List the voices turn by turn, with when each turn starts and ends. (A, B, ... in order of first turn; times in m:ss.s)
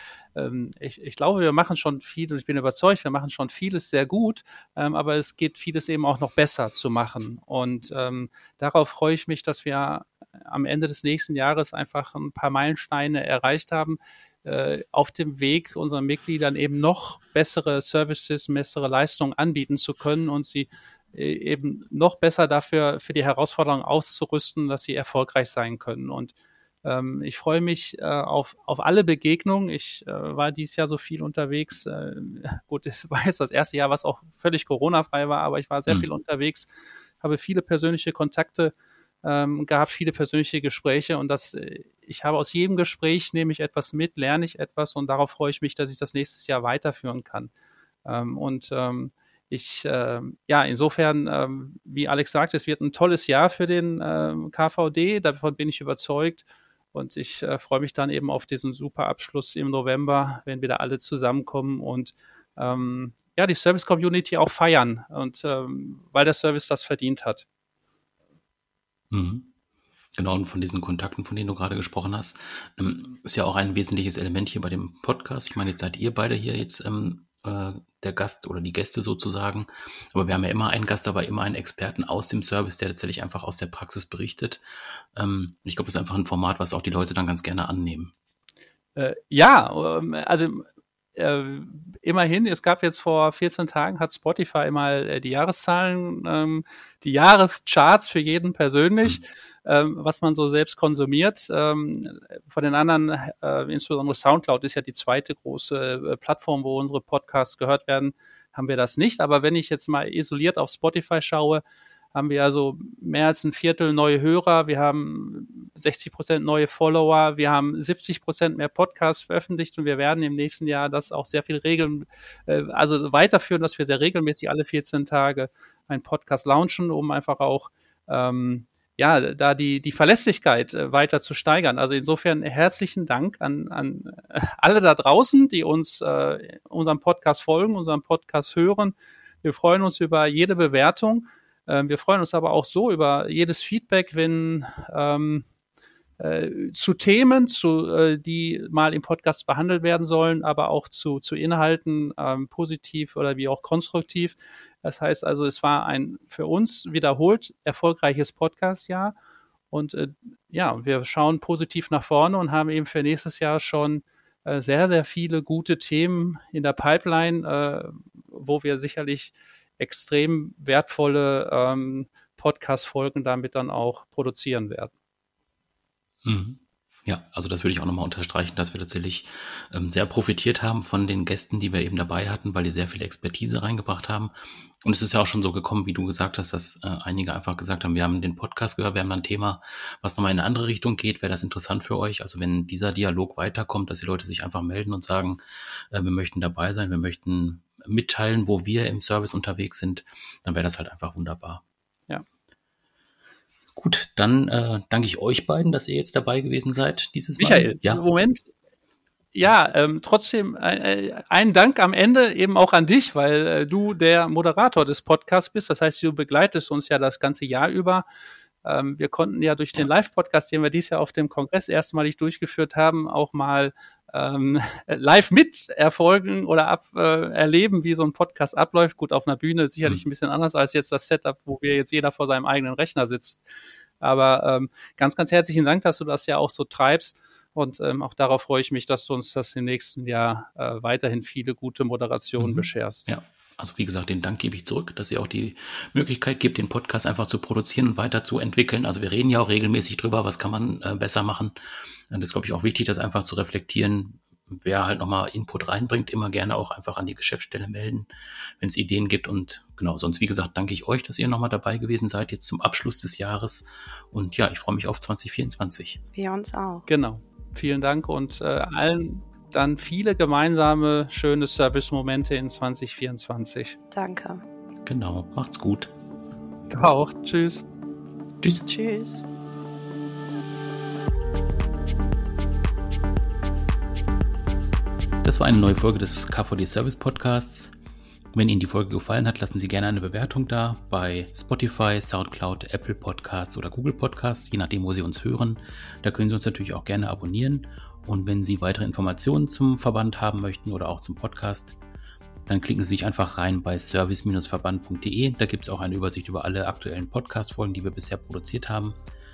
0:00.3-0:36.7 A
0:37.2-0:47.5 A
0:48.0-1:07.4 A
1:09.1-1:09.5 B
1:10.2-1:24.6 B
1:25.1-1:28.1 B
1:29.0-1:51.6 A
1:52.1-2:25.4 A
2:26.2-2:39.1 A
2:39.7-2:54.9 A
2:56.2-3:15.4 B
3:15.9-3:21.6 B
3:23.8-3:28.0 B
3:27.4-3:28.4 A
3:29.3-3:38.0 A
3:38.6-3:53.5 A
3:54.0-4:03.1 A
4:02.4-4:11.5 B
4:12.1-4:26.0 B
4:26.1-4:26.8 C
4:26.9-4:33.8 A
4:33.9-4:34.4 C
4:34.8-4:35.9 B
4:36.7-4:37.6 A
4:38.6-4:39.2 C
4:45.2-4:47.7 B
4:48.3-5:01.8 B
5:02.5-5:09.0 B